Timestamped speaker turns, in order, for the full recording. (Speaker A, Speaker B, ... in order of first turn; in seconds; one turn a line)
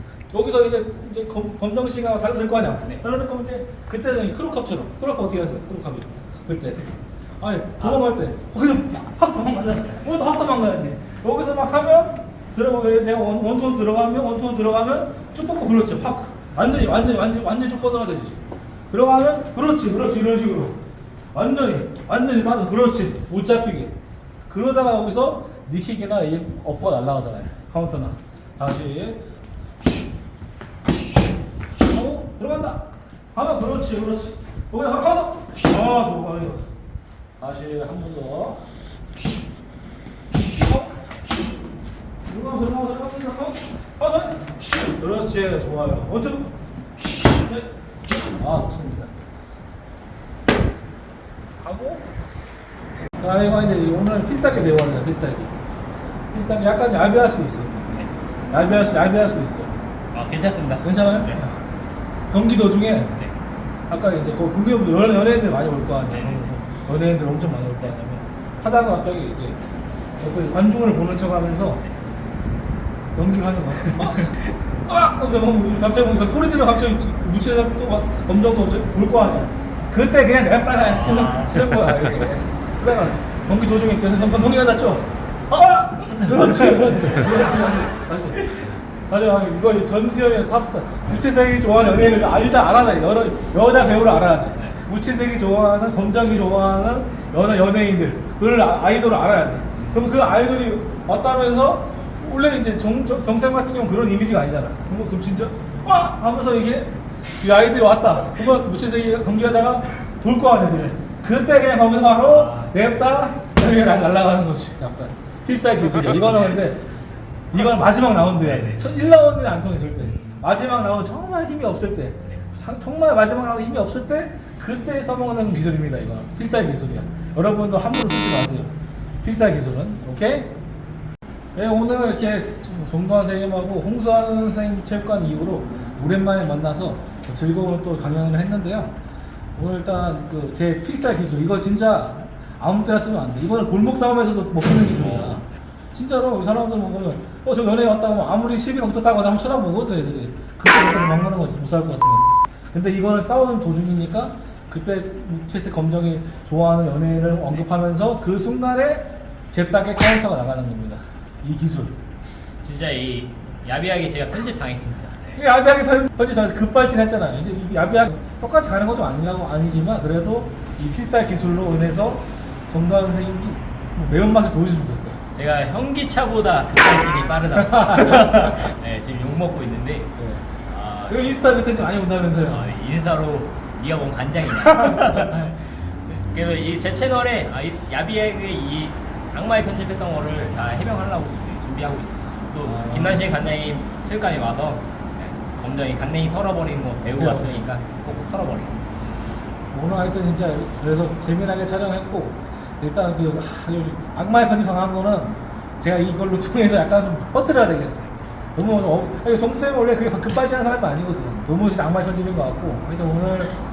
Speaker A: 0.3-6.8
Speaker A: 7.4-20.8
Speaker A: 21.3-23.9
Speaker A: 24.4-29.2
Speaker A: 31.9-36.6
Speaker A: 37.4-38.6
Speaker A: 40.5-40.9
Speaker A: 42.2-46.6
Speaker A: 48.2-49.1
Speaker A: 51.6-52.1
Speaker A: 53.2-55.5
Speaker A: 56.3-59.8
Speaker B: 60.1-61.4
Speaker A: 60.8-61.6
Speaker A: 62.3-63.2
Speaker A: 63.9-69.6
Speaker B: 66.1-66.5
Speaker A: 70.2-71.8
Speaker A: 73.1-116.8
Speaker B: 80.8-81.8
Speaker B: 99.8-100.1
Speaker B: 112.3-112.9
Speaker A: 117.5-130.5
Speaker B: 118.4-119.0
Speaker B: 120.0-120.4
Speaker A: 131.6-138.9
Speaker A: 139.6-161.9
Speaker B: 162.6-165.4
Speaker A: 165.3-175.2
Speaker B: 175.3-180.1
Speaker A: 177.9-178.7
Speaker A: 180.2-180.5
Speaker B: 180.7-181.4
Speaker A: 181.1-182.7
Speaker B: 182.4-198.9
Speaker A: 192.6-193.3
Speaker A: 197.2-197.6
Speaker A: 199.7-213.6